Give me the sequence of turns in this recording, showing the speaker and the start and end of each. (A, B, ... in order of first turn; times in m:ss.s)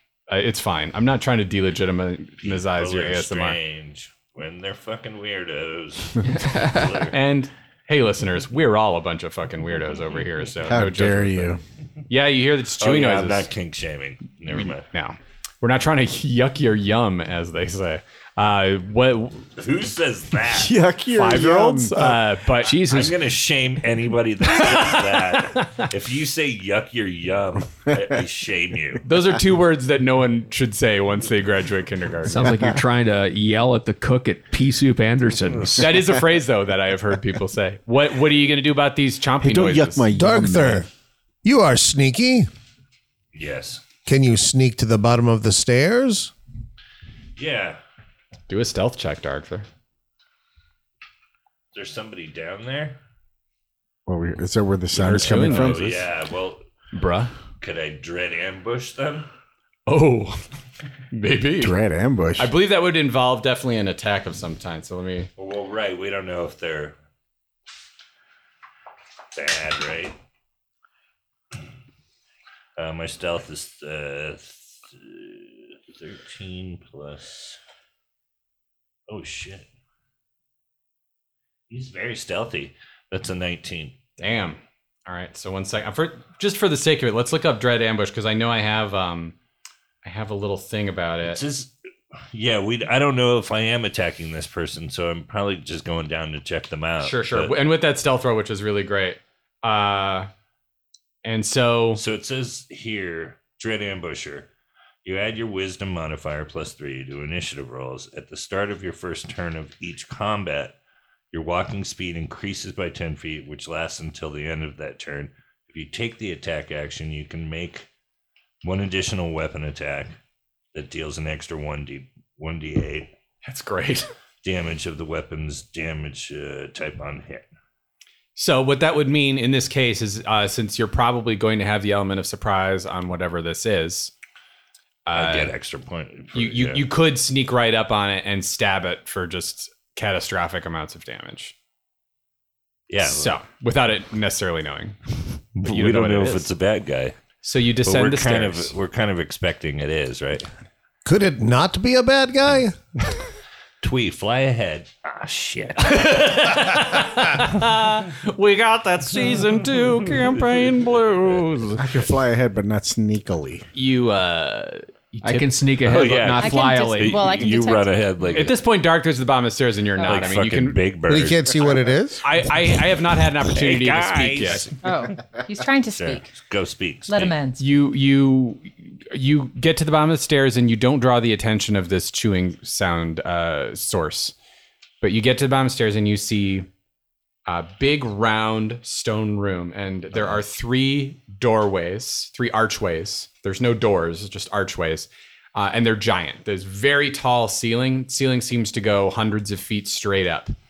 0:00.3-0:03.6 A
0:02.4-0:07.2 B
0:06.3-0:06.9 C
0:07.1-0:11.6 A
0:10.7-0:11.6 D
0:12.1-0:13.5 A
0:12.8-0:14.8 B
0:14.5-0:19.5 A
0:19.6-0:20.8 B
0:20.5-0:22.2 D
0:21.1-0:22.8 A
0:22.6-0:23.2 C
0:22.8-0:29.0 B
0:29.1-0:32.6 A
0:32.2-0:35.9 C
0:35.8-0:40.1 A
0:39.4-0:40.9 D
0:40.1-0:40.9 E
0:41.4-0:42.5 E
0:43.3-0:43.8 B
0:44.1-0:46.3 E
0:47.4-0:47.8 B
0:48.5-0:49.7 A
0:51.7-0:53.0 B
0:54.1-0:56.1 D
0:55.0-0:55.8 A
0:55.0-0:56.6 B
0:56.9-0:57.3 A
0:57.6-0:59.3 B
0:59.9-1:00.4 A
1:01.1-1:01.8 A
1:01.6-1:02.5 D
1:02.4-1:05.3 A
1:05.4-1:07.0 B
1:09.3-1:10.2 B
1:12.8-1:17.6 B
1:19.1-1:19.7 B
1:21.7-1:24.0 B
1:24.2-1:29.4 A
1:30.0-1:31.4 A
1:31.3-1:31.7 B
1:32.3-1:37.6 B
1:37.0-1:40.3 A
1:41.2-1:42.0 A
1:42.0-1:44.5 B
1:45.0-1:50.8 B
1:51.3-1:57.9 B
1:58.6-2:00.2 B
2:00.7-2:03.1 B
2:03.4-2:04.1 A
2:04.4-2:07.5 B
2:08.4-2:14.1 A
2:15.1-2:15.5 A
2:15.1-2:16.9 B
2:16.3-2:21.5 A
2:22.9-2:23.4 B
2:23.0-2:25.0 A
2:25.6-2:27.2 B
2:25.6-2:26.5 A
2:27.4-2:28.7 A
2:27.8-2:30.5 B
2:31.0-2:32.8 E
2:33.8-2:37.5 B
2:35.8-2:41.9 A
2:41.8-2:43.7 D
2:43.7-2:45.5 A
2:45.2-2:47.3 C
2:45.8-2:48.6 B
2:46.4-2:48.5 F
2:48.3-2:50.8 A
2:50.0-2:50.4 F
2:50.0-2:51.6 B
2:51.1-2:52.2 E
2:52.2-2:54.7 A
2:53.5-2:54.8 B
2:54.8-2:56.3 F
2:55.9-2:57.4 B
2:57.1-2:57.6 F
2:57.6-3:04.4 A
3:05.0-3:06.7 A
3:07.5-3:20.5 A